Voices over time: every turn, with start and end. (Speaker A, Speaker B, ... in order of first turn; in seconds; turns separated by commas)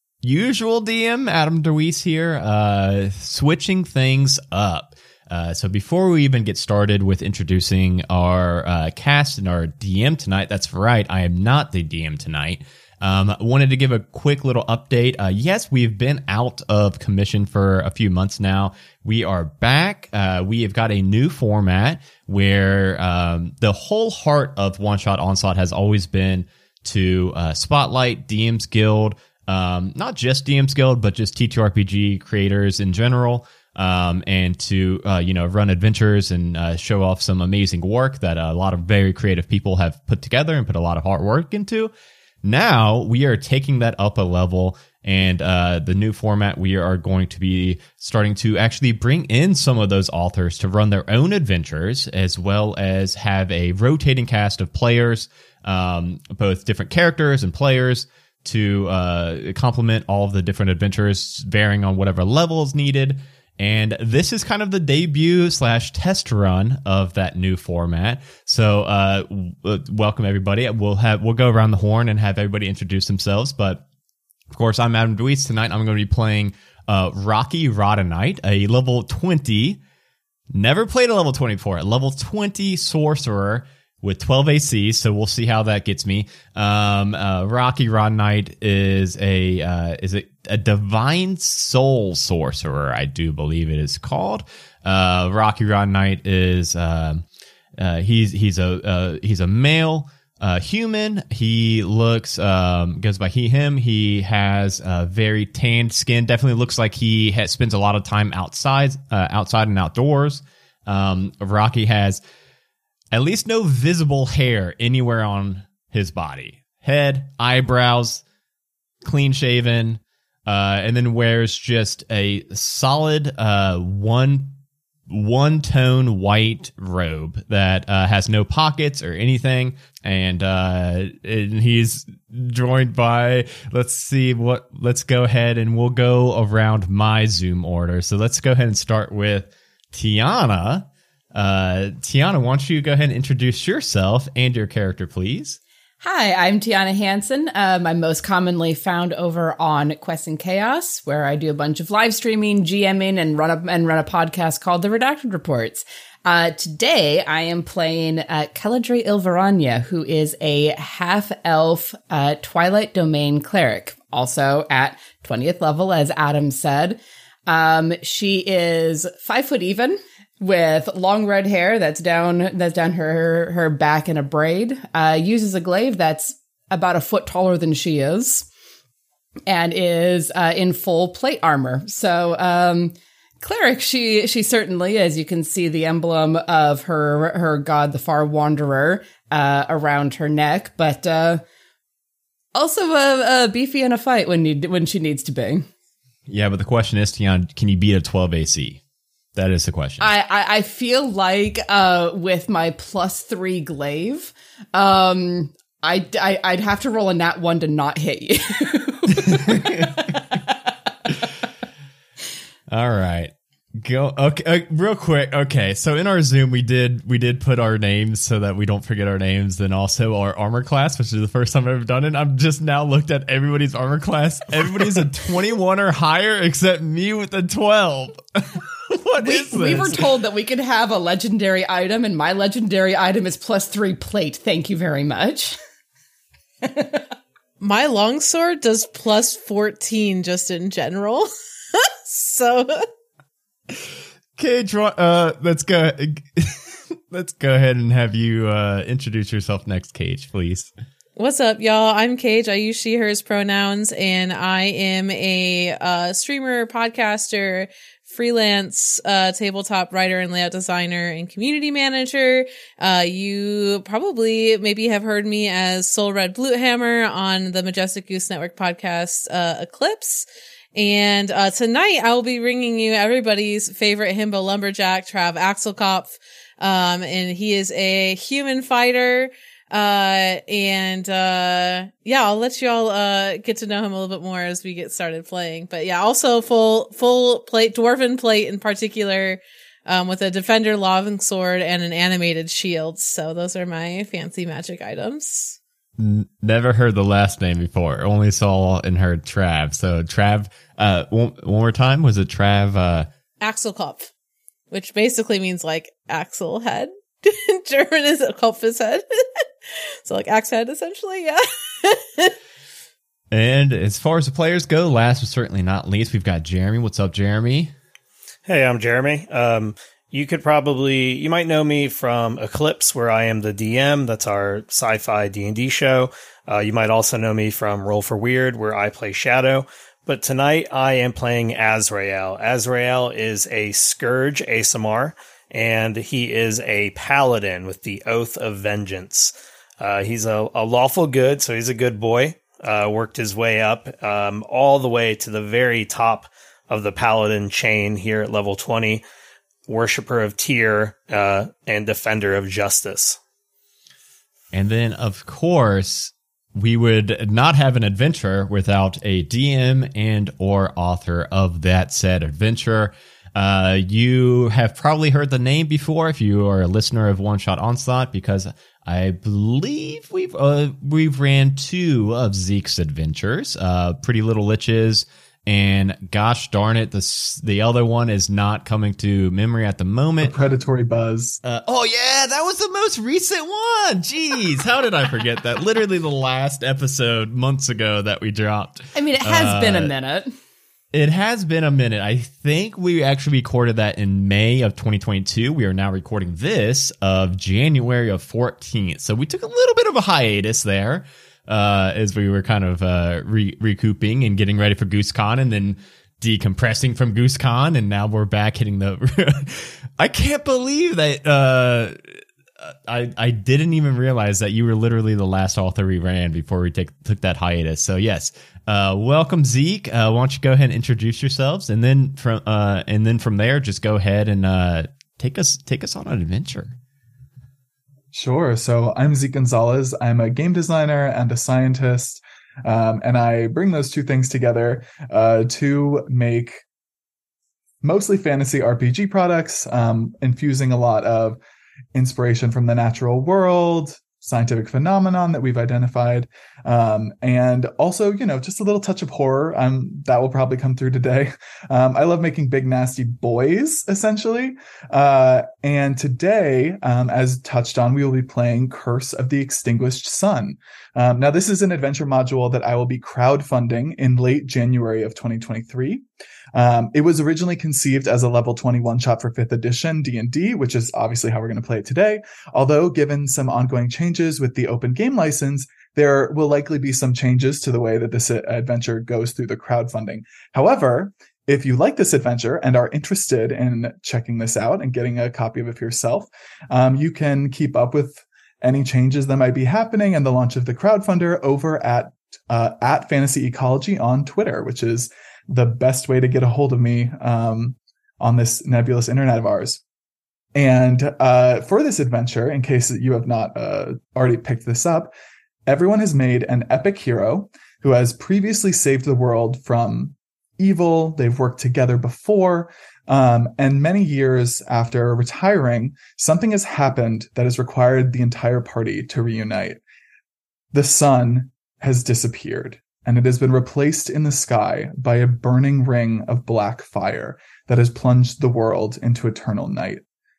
Speaker A: 0.2-41.9, Speaker A: 42.4-73.8, Speaker A: 74.5-79.8, Speaker A: 80.5-97.2, Speaker A: 97.8-112.2, Speaker A: 113.1-118.2, Speaker A: 119.0-124.5, Speaker A: 125.1-145.6, Speaker B: 146.0-178.5, Speaker B: 179.5-191.4, Speaker B: 192.6-195.7, Speaker A: 196.3-198.8, Speaker A: 199.3-200.1, Speaker B: 200.0-210.6, Speaker A: 209.2-210.0, Speaker A: 212.7-230.1, Speaker B: 229.2-235.6, Speaker B: 236.6-237.1, Speaker C: 237.6-242.8, Speaker A: 244.4-250.7, Speaker C: 251.2-295.6, Speaker A: 296.0-303.1, Speaker C: 303.4-304.1, Speaker C: 304.7-309.4, Speaker C: 310.1-312.3, Speaker A: 313.3-317.7, Speaker D: 318.5-349.0, Speaker D: 349.7-353.2, Speaker A: 354.5-380.4, Speaker E: 380.2-381.4, Speaker A: 381.4-389.9, Speaker B: 388.9-390.3, Speaker A: 390.9-412.0, Speaker A: 412.6-426.8, Speaker E: 428.1-436.6, Speaker E: 437.8-441.4, Speaker E: 441.9-466.0, Speaker E: 466.6-499.8, Speaker E: 500.6-505.1, Speaker E: 505.7-519.8, Speaker E: 520.7-530.0